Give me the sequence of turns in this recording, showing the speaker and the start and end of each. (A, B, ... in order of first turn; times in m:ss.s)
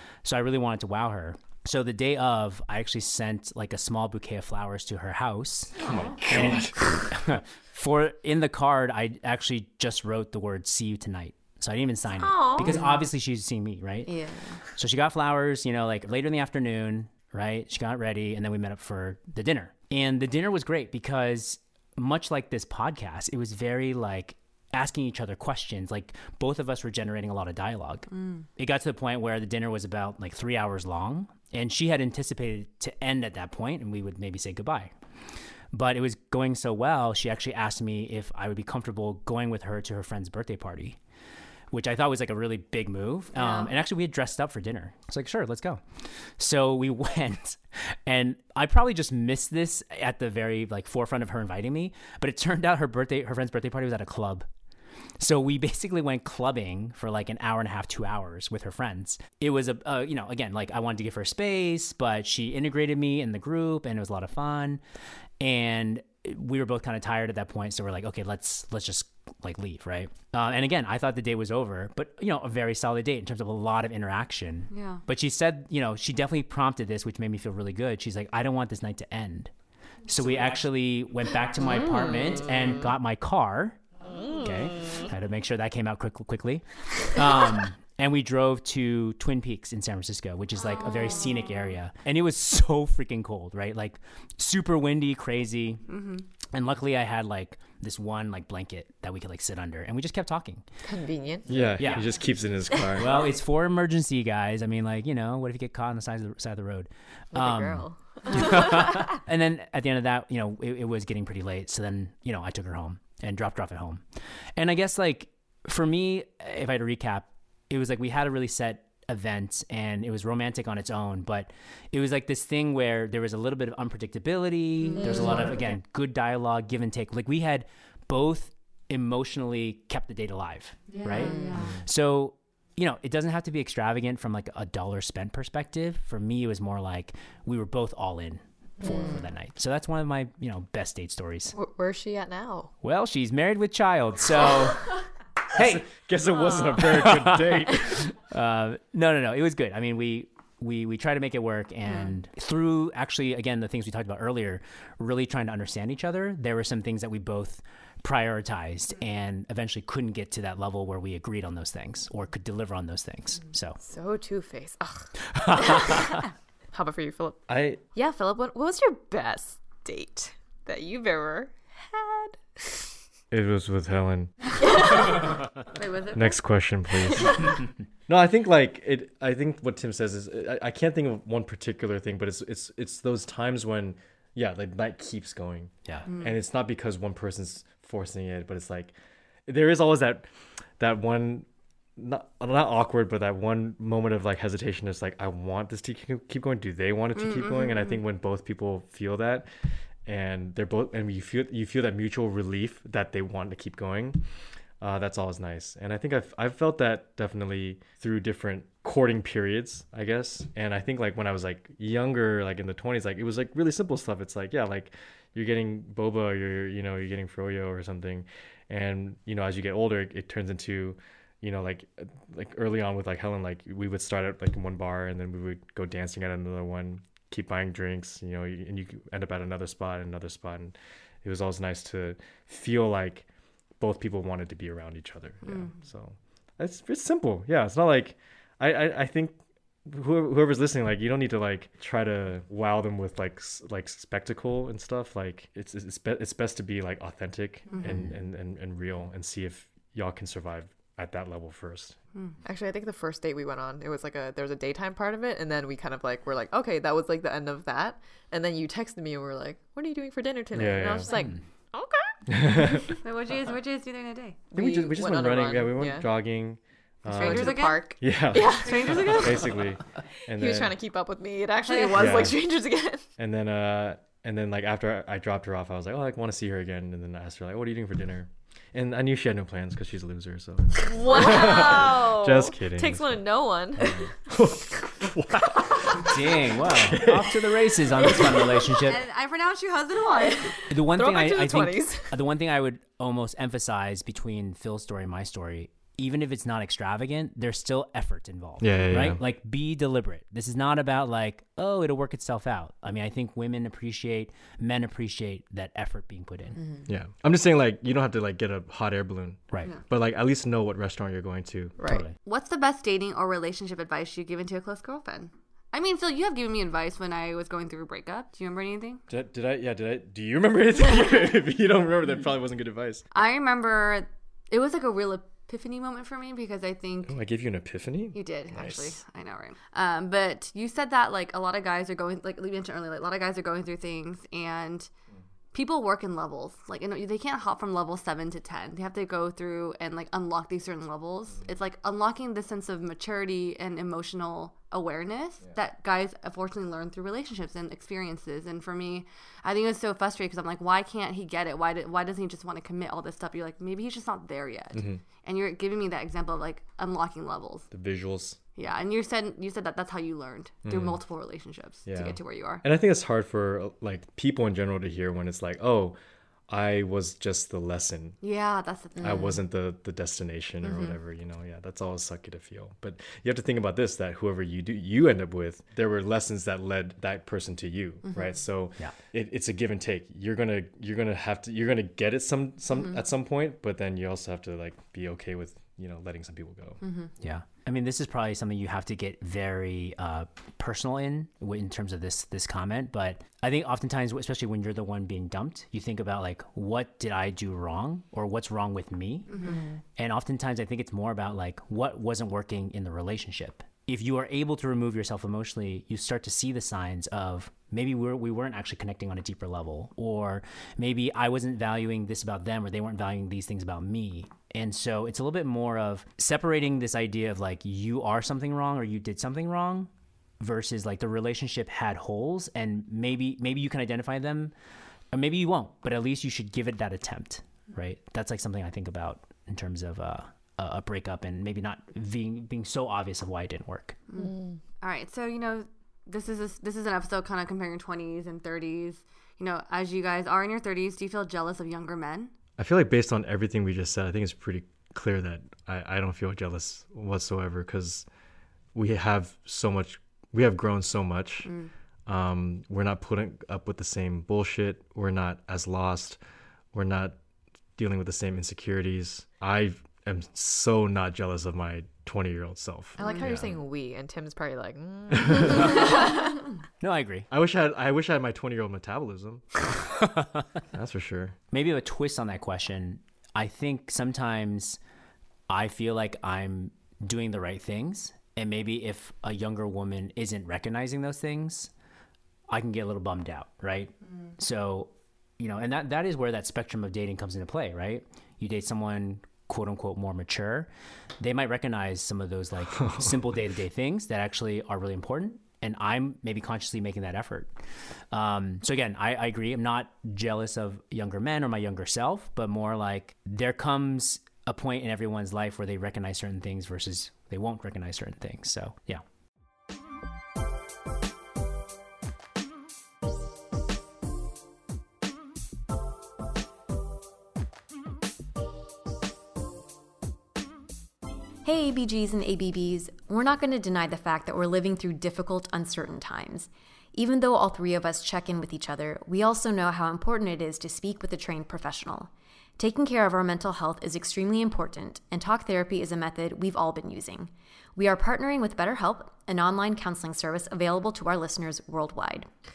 0:00.2-0:14.1 A
0:05.8-0:07.0 B
0:12.5-0:13.0 C
0:14.1-0:14.6 C
0:14.8-0:34.9 A
0:28.1-0:28.5 D
0:35.7-0:41.0 A
0:41.7-0:45.8 A
0:43.4-0:43.7 C
0:46.4-0:54.5 A
0:55.2-1:04.8 A
1:05.4-1:19.5 A
1:14.7-1:15.0 D
1:20.1-1:23.8 A
1:24.4-1:35.9 A
1:35.9-1:36.2 D
1:36.5-1:40.6 A
1:40.8-1:41.7 E
1:41.5-1:43.2 B
1:41.8-1:42.0 A
1:43.0-1:54.0 A
1:47.3-1:48.6 E
1:54.6-2:21.6 A
2:10.9-2:11.8 D
2:11.1-2:11.6 C
2:18.8-2:19.1 E
2:18.8-2:19.1 C
2:21.5-2:22.7 E
2:22.8-2:25.9 A
2:25.5-2:28.1 B
2:26.8-2:43.8 A
2:43.8-2:45.1 E
2:45.3-2:46.2 A
2:46.7-2:52.9 E
2:47.5-2:47.8 B
2:53.3-2:54.4 B
2:54.6-2:56.4 D
2:56.1-3:08.9 B
2:57.1-2:57.5 D
3:06.1-3:06.4 D
3:09.5-3:19.5 B
3:17.2-3:18.0 D
3:20.0-3:24.2 B
3:24.8-3:53.3 B
3:53.8-4:12.0 B
3:55.4-3:55.8 D
4:07.7-4:08.0 D
4:12.4-4:22.1 E
4:20.5-4:21.2 B
4:21.2-4:21.4 A
4:22.3-4:22.9 B
4:23.0-4:24.5 D
4:24.5-4:26.1 E
4:24.5-4:30.7 B
4:27.1-4:29.5 D
4:27.1-4:29.6 E
4:30.3-4:33.0 E
4:31.7-4:32.3 D
4:32.0-4:32.4 B
4:33.2-4:43.3 B
4:40.8-4:44.1 E
4:43.8-4:47.4 B
4:46.0-4:49.0 A
4:48.8-4:50.7 D
4:50.7-5:06.6 A
4:50.9-4:52.1 E
4:58.6-4:59.2 B
5:06.6-5:06.8 C
5:06.9-5:11.8 B
5:11.8-5:12.0 E
5:11.9-5:12.1 A
5:12.2-5:19.0 D
5:19.1-5:23.0 B
5:23.1-5:27.1 D
5:27.1-5:29.0 B
5:28.1-5:34.9 D
5:35.5-5:57.7 D
5:54.7-5:55.0 B
5:57.7-5:58.4 B
5:58.6-6:02.6 D
6:00.6-6:01.0 B
6:01.9-6:06.0 B
6:06.5-6:08.2 B
6:08.2-6:09.4 D
6:09.0-6:26.8 B
6:10.7-6:10.9 D
6:18.1-6:18.3 D
6:26.8-6:27.1 D
6:27.2-6:39.3 A
6:39.3-6:39.6 D
6:40.0-7:04.5 A
7:05.1-7:14.0 A
7:14.1-7:22.3 D
7:14.2-7:14.6 E
7:22.6-7:28.1 B
7:28.8-7:31.5 B
7:31.4-7:31.7 D
7:32.1-7:36.2 B
7:36.7-7:37.2 B
7:37.8-7:43.6 B
7:43.0-7:45.9 E
7:45.1-7:45.9 B
7:46.8-7:47.3 A
7:47.3-7:49.6 B
7:50.0-7:50.4 A
7:50.7-7:51.4 B
7:51.5-7:54.8 A
7:55.5-8:01.7 A
8:02.5-8:17.5 A
8:18.1-8:29.0 A
8:41.4-9:02.3 C